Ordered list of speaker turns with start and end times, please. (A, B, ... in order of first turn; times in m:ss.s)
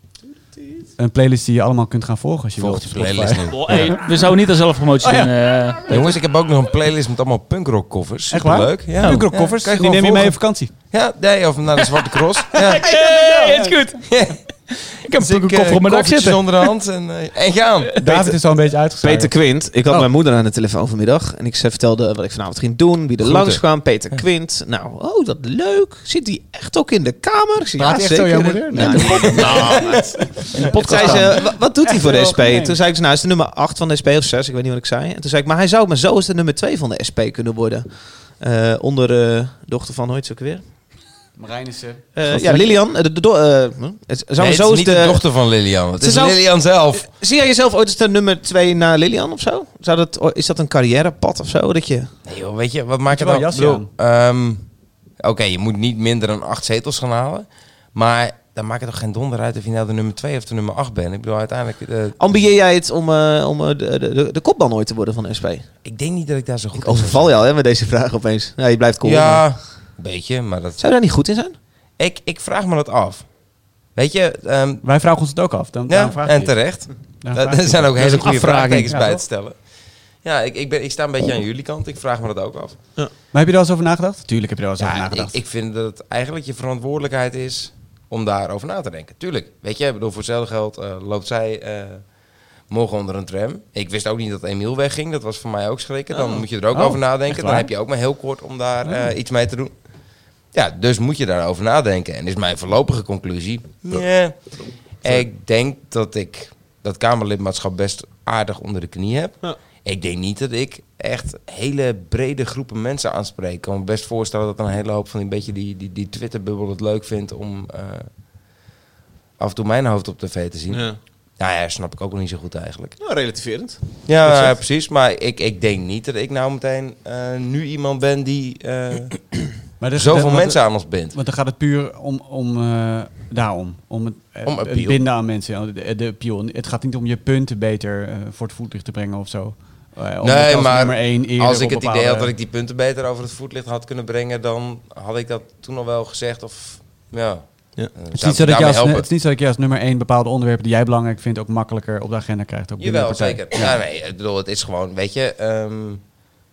0:01.0-0:04.0 A
0:02.6-0:03.9 B
0:03.5-0:06.1 C
0:05.0-0:05.3 A
0:05.9-0:12.8 B
0:08.3-0:10.7 A
0:09.0-0:09.3 D
0:11.8-0:16.7 C
0:12.8-0:13.7 A
0:14.1-0:14.4 B
0:15.1-0:17.9 B
0:18.0-0:19.3 A
0:18.0-0:18.4 D
0:19.0-0:40.6 D
0:23.2-0:24.2 B
0:27.8-0:32.8 A
0:29.1-0:29.7 C
0:29.4-0:29.9 B
0:30.6-0:31.2 B
0:30.6-0:31.2 C
0:41.4-0:42.6 A
0:42.2-0:45.2 D
0:44.4-0:47.1 B
0:46.0-0:52.1 D
0:52.2-0:54.6 B
0:53.1-0:53.9 A
0:55.2-1:02.4 B
1:02.2-1:05.7 D
1:05.8-1:07.3 B
1:06.7-1:09.5 D
1:09.0-1:10.8 B
1:10.8-1:11.6 D
1:12.0-1:13.2 B
1:14.0-1:14.8 B
1:14.8-1:16.7 A
1:15.9-1:19.6 B
1:17.2-1:17.9 A
1:18.0-1:19.0 C
1:18.9-1:19.2 A
1:20.2-1:22.8 B
1:23.3-1:25.3 A
1:24.8-1:32.0 B
1:32.7-1:39.7 B
1:36.1-1:36.4 D
1:36.7-1:37.7 A
1:38.8-1:39.1 A
1:40.5-1:44.3 B
1:45.0-1:58.1 B
1:59.4-2:03.0 B
2:00.7-2:01.0 D
2:03.0-2:04.6 D
2:04.0-2:09.4 B
2:09.8-2:22.3 A
2:09.9-2:11.1 B
2:14.4-2:15.0 B
2:20.2-2:29.1 B
2:28.1-2:33.7 A
2:32.8-2:36.0 B